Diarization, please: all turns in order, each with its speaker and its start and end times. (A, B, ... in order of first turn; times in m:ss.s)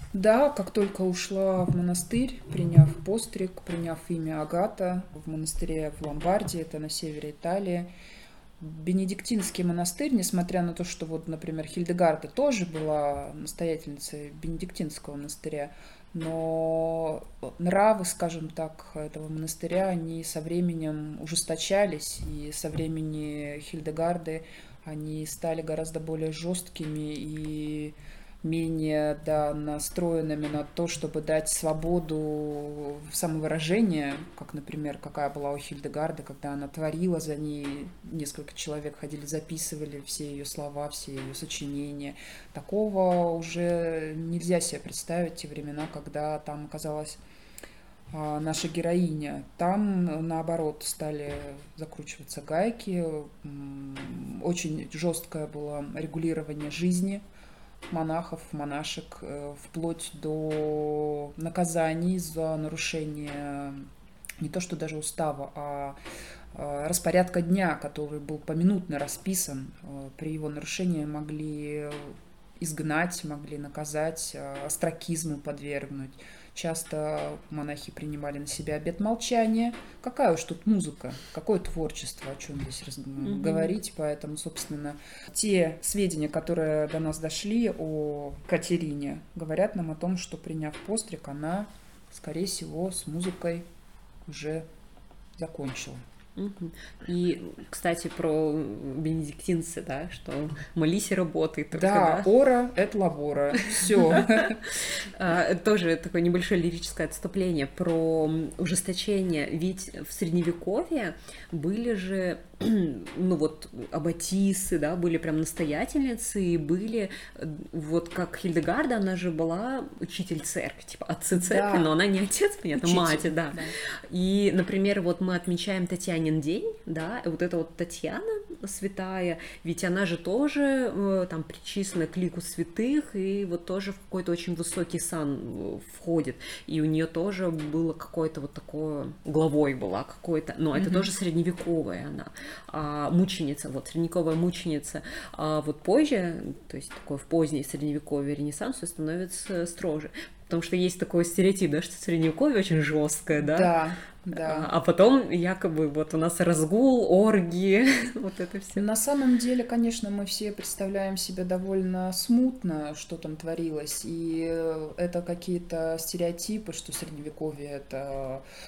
0:00.1-0:07.9 A
0:08.6-0:47.2 A
0:48.1-0:57.2 A
0:57.9-1:06.0 A
1:06.5-1:33.7 A
1:23.2-1:23.7 B
1:34.2-1:34.6 A
1:35.4-1:36.0 A
1:36.4-1:42.3 B
1:41.7-1:44.6 A
1:44.1-2:33.8 B
2:01.3-2:01.9 A
2:02.8-2:03.8 A
2:20.8-2:21.1 A
2:33.4-2:34.7 A
2:34.3-2:38.8 B
2:38.8-2:48.4 A